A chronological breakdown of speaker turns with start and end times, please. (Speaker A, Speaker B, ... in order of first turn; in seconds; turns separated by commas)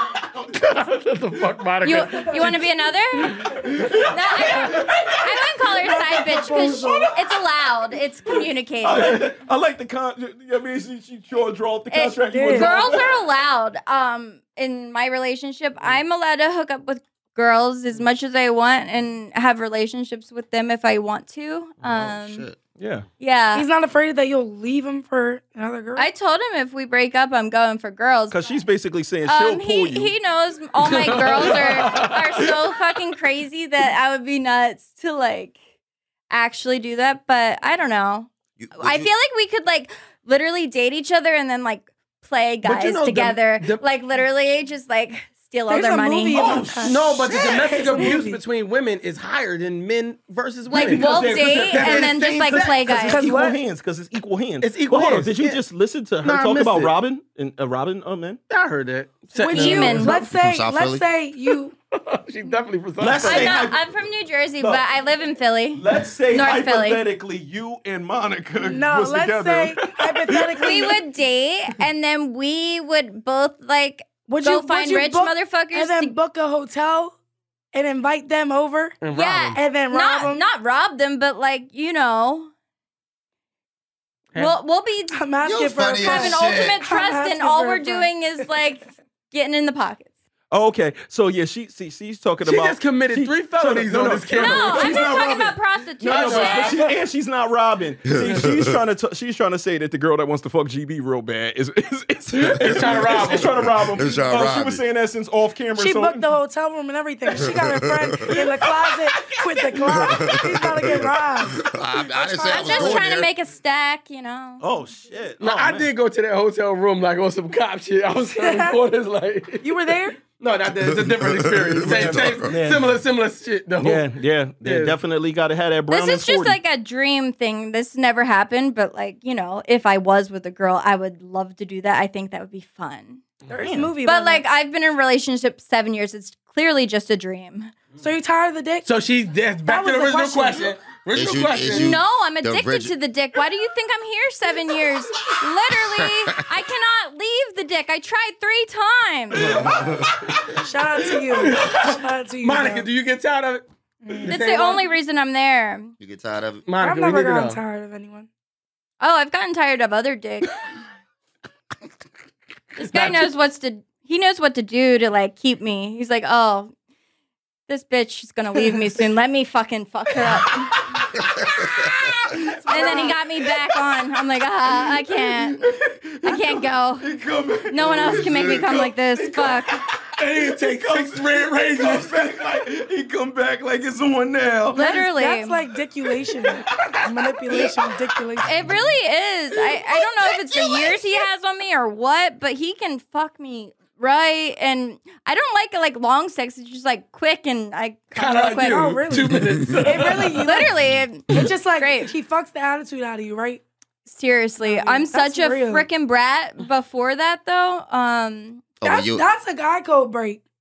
Speaker A: 0.5-2.6, Speaker B: 1.8-3.4, Speaker C: 3.6-7.0, Speaker B: 4.0-9.2, Speaker D: 6.1-7.1, Speaker C: 8.8-13.2, Speaker B: 11.9-22.5, Speaker D: 12.3-12.9, Speaker E: 21.9-22.6, Speaker C: 22.8-23.1, Speaker B: 23.2-23.6, Speaker D: 23.5-26.1, Speaker B: 25.9-28.6, Speaker C: 28.3-30.1, Speaker B: 29.2-35.5, Speaker A: 30.8-32.5, Speaker B: 36.3-46.6, Speaker E: 38.6-39.1, Speaker A: 42.6-43.8, Speaker D: 45.7-48.4, Speaker C: 46.3-47.4, Speaker A: 46.8-52.9, Speaker B: 50.7-53.3, Speaker C: 50.7-58.4, Speaker D: 53.1-53.6, Speaker A: 54.6-55.6, Speaker A: 56.2-56.9, Speaker A: 58.5-60.2, Speaker D: 59.4-61.7, Speaker B: 59.4-60.2, Speaker E: 60.3-61.1, Speaker A: 61.9-63.6, Speaker C: 63.0-63.9, Speaker B: 63.2-67.0, Speaker C: 64.6-64.8, Speaker C: 65.7-70.9, Speaker D: 68.6-71.0, Speaker B: 70.6-76.1, Speaker D: 74.3-77.1, Speaker D: 77.7-79.0, Speaker A: 79.0-79.6, Speaker B: 79.1-82.5, Speaker D: 79.5-80.4, Speaker B: 84.4-85.2, Speaker D: 85.1-88.1, Speaker E: 85.4-86.8, Speaker B: 86.0-90.1, Speaker C: 90.5-106.3, Speaker A: 92.4-95.0, Speaker B: 94.3-96.8, Speaker A: 96.1-96.9, Speaker E: 98.1-98.8, Speaker A: 102.3-103.5, Speaker E: 103.2-104.8, Speaker D: 105.8-113.0, Speaker E: 107.3-108.4, Speaker E: 110.0-113.3, Speaker B: 112.5-114.6, Speaker C: 114.6-115.9, Speaker A: 115.4-124.1, Speaker D: 118.3-118.8, Speaker D: 119.6-120.2, Speaker E: 121.3-122.5, Speaker C: 121.8-123.0, Speaker C: 123.8-126.6, Speaker A: 124.6-125.0, Speaker B: 125.9-133.2, Speaker D: 133.5-134.4, Speaker C: 133.6-133.9, Speaker B: 134.0-137.7, Speaker D: 138.0-138.9, Speaker A: 138.8-141.9, Speaker D: 139.7-140.7, Speaker E: 141.1-142.9, Speaker B: 141.7-149.5, Speaker E: 145.8-146.4, Speaker A: 149.4-150.5, Speaker C: 149.4-150.4, Speaker E: 149.7-150.1, Speaker D: 150.5-152.9, Speaker A: 151.3-154.9, Speaker D: 154.0-154.3, Speaker B: 154.3-155.9, Speaker E: 156.0-156.6, Speaker A: 156.6-157.6, Speaker D: 156.8-158.3, Speaker B: 159.0-160.5, Speaker B: 162.8-166.7, Speaker A: 162.8-163.3, Speaker B: 167.7-170.8, Speaker E: 171.3-171.9, Speaker C: 171.8-172.9, Speaker B: 172.7-175.6, Speaker D: 172.7-173.1, Speaker C: 174.8-179.7, Speaker B: 176.2-177.1, Speaker B: 177.7-179.8, Speaker A: 180.2-182.5, Speaker C: 180.2-184.9, Speaker B: 184.7-185.6, Speaker D: 184.7-188.5, Speaker B: 188.4-198.9, Speaker A: 198.1-200.6, Speaker D: 198.6-200.7, Speaker B: 200.4-202.1, Speaker D: 201.3-203.6, Speaker B: 204.1-208.6, Speaker D: 204.6-205.8, Speaker E: 208.8-209.2, Speaker D: 208.8-210.4